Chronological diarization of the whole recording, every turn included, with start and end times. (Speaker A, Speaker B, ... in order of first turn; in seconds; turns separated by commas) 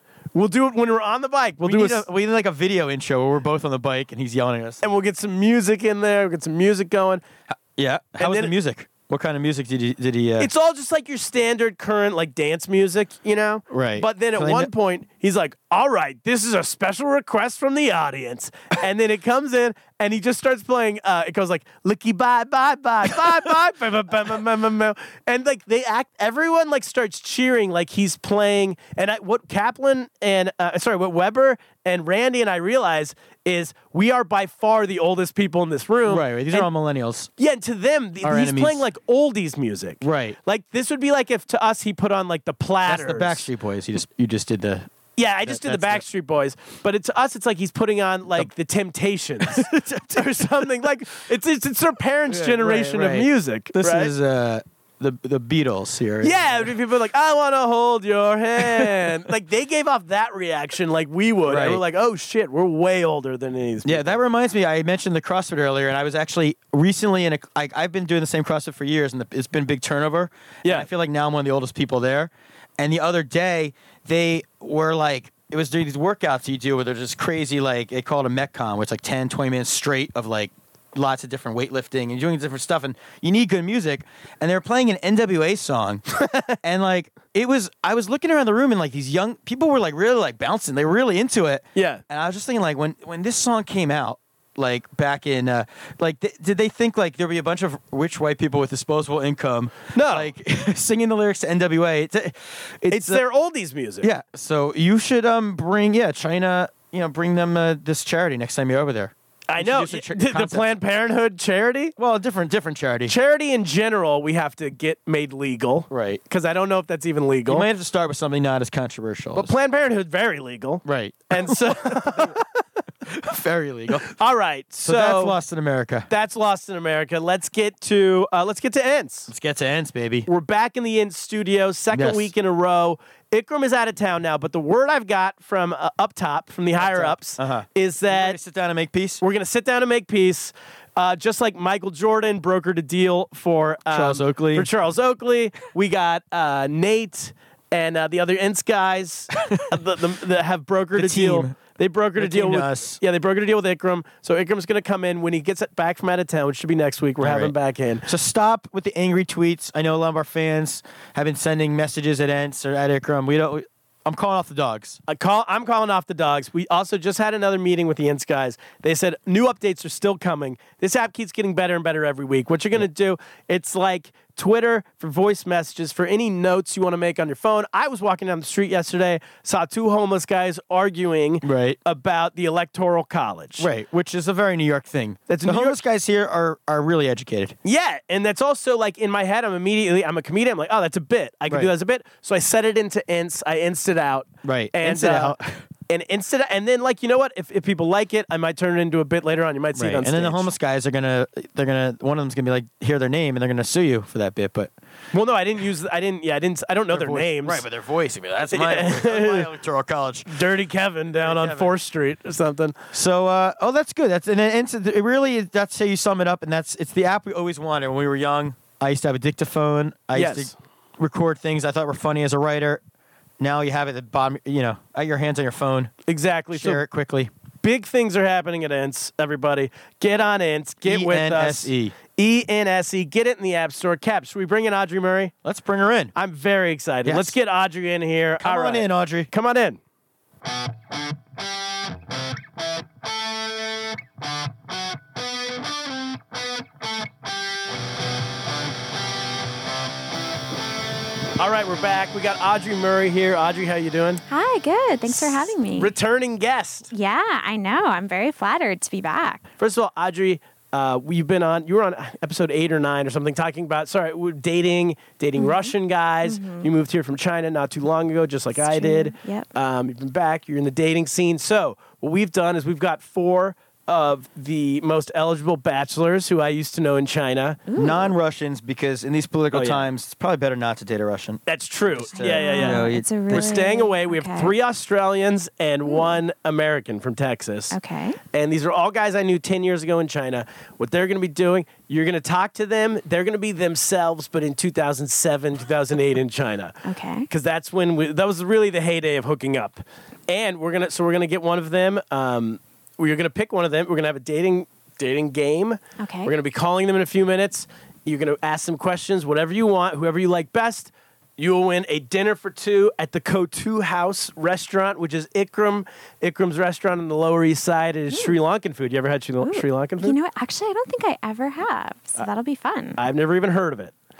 Speaker A: 0.3-2.0, Speaker B: 1.6-4.8, Speaker A: 4.8-7.2, Speaker B: 7.5-10.5, Speaker A: 8.2-8.5, Speaker A: 10.4-36.7, Speaker B: 13.7-14.7, Speaker B: 36.1-37.3, Speaker A: 37.4-43.5, Speaker B: 38.2-38.8, Speaker B: 40.0-40.4, Speaker B: 42.8-44.9, Speaker A: 45.2-54.1, Speaker B: 45.5-46.0, Speaker B: 49.4-50.6, Speaker B: 52.3-56.7, Speaker A: 56.2-64.2, Speaker B: 58.6-59.1, Speaker B: 61.5-61.8, Speaker B: 63.8-86.0, Speaker A: 86.2-86.6, Speaker B: 86.6-103.2, Speaker A: 91.7-92.0, Speaker A: 99.9-100.3, Speaker A: 102.9-104.1, Speaker B: 104.0-110.7, Speaker A: 109.5-111.9, Speaker B: 112.0-113.1, Speaker A: 113.1-117.7, Speaker B: 115.9-116.2, Speaker B: 117.5-119.5, Speaker A: 119.3-122.4, Speaker B: 120.8-122.4, Speaker B: 123.0-124.1, Speaker A: 124.1-125.4, Speaker B: 124.8-126.1, Speaker A: 126.1-129.3, Speaker B: 129.3-130.3, Speaker A: 130.3-138.4, Speaker B: 131.9-132.3, Speaker B: 136.8-139.2, Speaker A: 139.2-158.1, Speaker B: 143.9-144.7, Speaker B: 150.9-151.6, Speaker B: 152.2-153.0, Speaker B: 157.2-157.5, Speaker B: 158.1-165.0, Speaker A: 165.1-183.7, Speaker B: 181.4-181.8, Speaker B: 183.6-187.6, Speaker A: 185.3-185.8, Speaker A: 187.6-195.3, Speaker B: 194.4-195.6, Speaker A: 195.9-200.5, Speaker B: 199.7-204.7, Speaker A: 205.1-207.6, Speaker B: 206.9-210.4, Speaker A: 208.5-209.5, Speaker A: 210.3-212.8, Speaker B: 211.2-211.7, Speaker B: 212.9-222.8, Speaker A: 220.1-220.5, Speaker B: 223.4-225.9, Speaker A: 226.1-226.8, Speaker B: 226.5-227.3, Speaker A: 227.6-235.3, Speaker B: 230.8-231.9, Speaker B: 235.4-236.1, Speaker A: 236.1-239.8, Speaker B: 237.0-237.3, Speaker B: 238.4-239.3, Speaker A: 251.4-254.2, Speaker C: 254.3-255.9, Speaker A: 255.1-256.9, Speaker C: 256.9-259.4, Speaker A: 259.6-277.6, Speaker C: 265.4-266.7, Speaker C: 268.5-269.5, Speaker C: 277.7-278.1, Speaker B: 277.8-283.5, Speaker A: 279.5-279.9, Speaker A: 281.5-287.8, Speaker C: 282.1-284.5, Speaker C: 285.9-286.1, Speaker C: 287.7-288.2, Speaker A: 288.3-296.8, Speaker C: 296.8-297.3, Speaker A: 297.3-320.1, Speaker C: 306.0-306.3, Speaker C: 319.4-323.0, Speaker A: 323.0-323.9